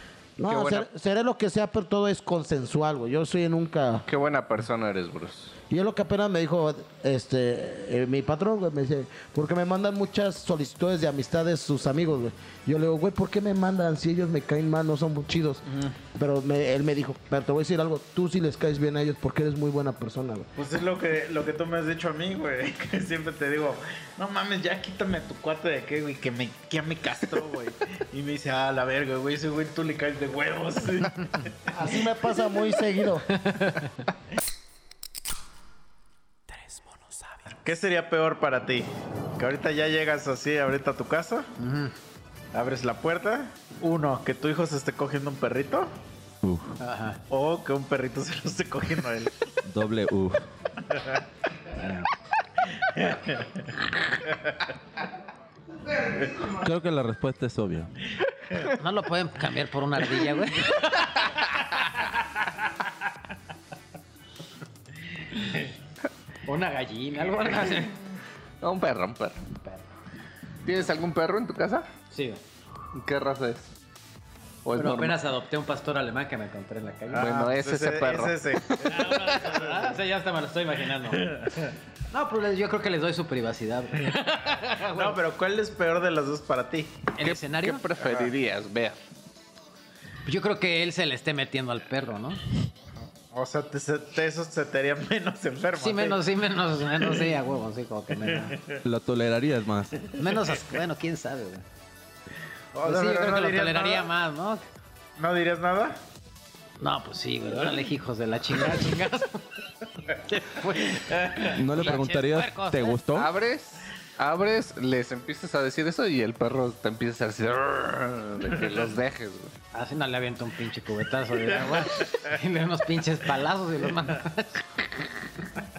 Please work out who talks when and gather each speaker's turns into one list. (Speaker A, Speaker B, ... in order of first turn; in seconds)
Speaker A: 0.4-4.1, 5.7-20.5, 31.7-33.3
Speaker B: 0.5-0.9, 4.1-5.5, 68.6-69.5, 70.6-71.9, 72.9-73.7, 74.7-75.2, 77.1-79.2, 87.2-89.0, 113.1-119.5
Speaker C: 20.6-31.8, 37.6-41.5, 42.5-45.9, 47.3-49.3, 50.9-51.2, 52.8-54.5, 77.1-80.0, 81.1-81.7, 84.8-87.0, 88.0-88.3, 93.1-96.2, 98.2-98.8, 102.7-104.1, 105.2-106.0, 111.1-111.5
Speaker D: 33.4-33.9, 41.6-41.9, 46.8-47.2, 51.8-52.1, 58.7-61.0, 66.5-68.0, 72.1-72.4, 74.7-77.4, 78.8-81.5, 82.1-85.2, 87.2-87.8, 90.3-92.4, 95.8-98.6, 100.2-101.6, 102.8-104.6, 106.8-109.5, 110.1-113.0, 119.7-124.7
Speaker E: 46.4-46.8, 49.6-50.5, 56.5-57.9, 98.8-100.0, 111.5-113.3